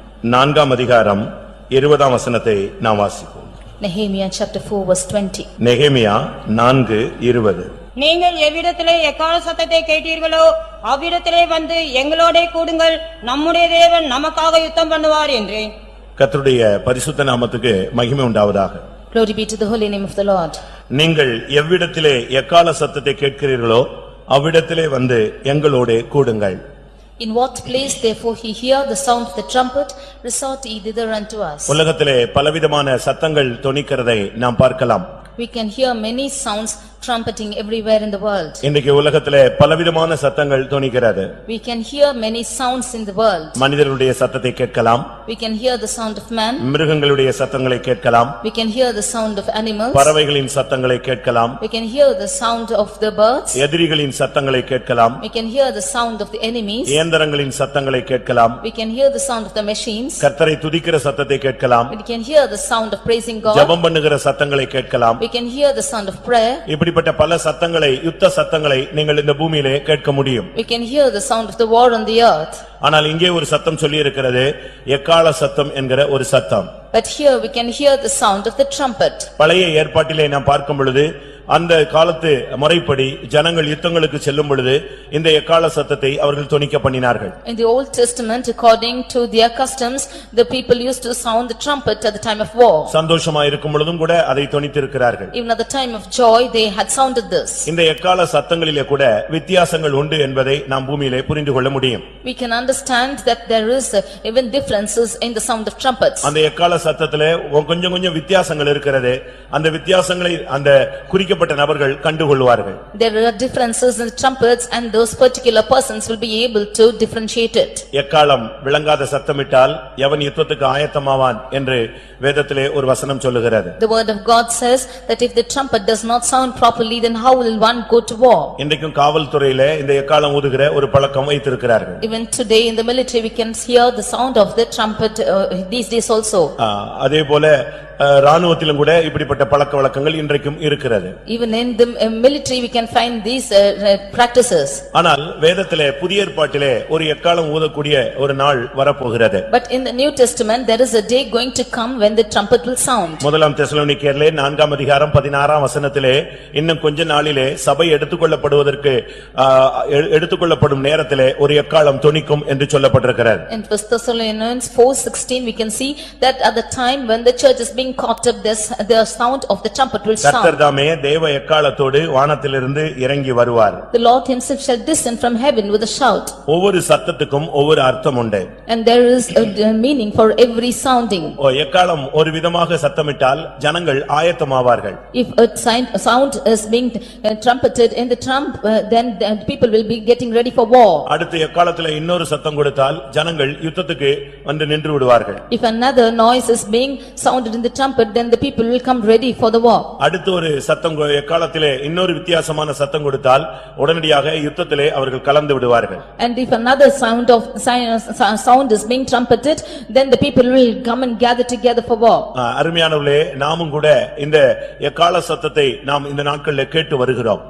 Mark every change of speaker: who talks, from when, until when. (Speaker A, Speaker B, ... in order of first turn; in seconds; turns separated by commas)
Speaker A: 0.3-3.5, Speaker B: 3.8-5.5, Speaker A: 5.6-7.7, Speaker C: 8.0-15.7, Speaker A: 16.2-18.8, Speaker B: 19.1-20.6, Speaker A: 20.9-26.6, Speaker B: 27.2-31.8, Speaker A: 31.7-35.1, Speaker B: 35.4-38.6, Speaker A: 38.6-41.3, Speaker B: 41.5-43.6, Speaker A: 43.5-45.1, Speaker B: 45.2-46.7, Speaker A: 46.6-48.4, Speaker B: 48.4-50.1, Speaker A: 49.9-51.6, Speaker B: 51.6-53.6, Speaker A: 53.5-55.2, Speaker B: 55.2-57.0, Speaker A: 56.9-58.6, Speaker B: 58.6-60.3, Speaker A: 60.2-61.9, Speaker B: 61.9-63.7, Speaker A: 63.5-65.2, Speaker B: 65.2-66.6, Speaker A: 66.7-70.5, Speaker B: 70.5-72.6, Speaker A: 72.8-76.7, Speaker B: 76.9-79.3, Speaker A: 79.4-87.3, Speaker B: 87.4-92.9, Speaker A: 92.9-95.3, Speaker B: 95.3-97.7, Speaker A: 97.7-102.0, Speaker B: 102.2-106.3, Speaker A: 106.2-112.8, Speaker B: 112.9-117.8, Speaker A: 117.9-123.7, Speaker B: 123.8-128.6, Speaker A: 128.6-132.0, Speaker B: 132.0-136.5, Speaker A: 136.6-141.1, Speaker B: 141.3-144.8, Speaker A: 144.9-149.4, Speaker B: 149.5-153.2, Speaker A: 153.2-163.4, Speaker B: 163.5-170.6, Speaker A: 170.2-173.8, Speaker B: 173.9-176.3, Speaker A: 176.5-178.5, Speaker B: 178.7-181.4, Speaker A: 181.4-185.0, Speaker B: 185.1-191.1, Speaker A: 191.1-195.4, Speaker B: 195.5-199.9, Speaker A: 200.0-206.0, Speaker B: 206.2-212.3, Speaker A: 212.3-217.4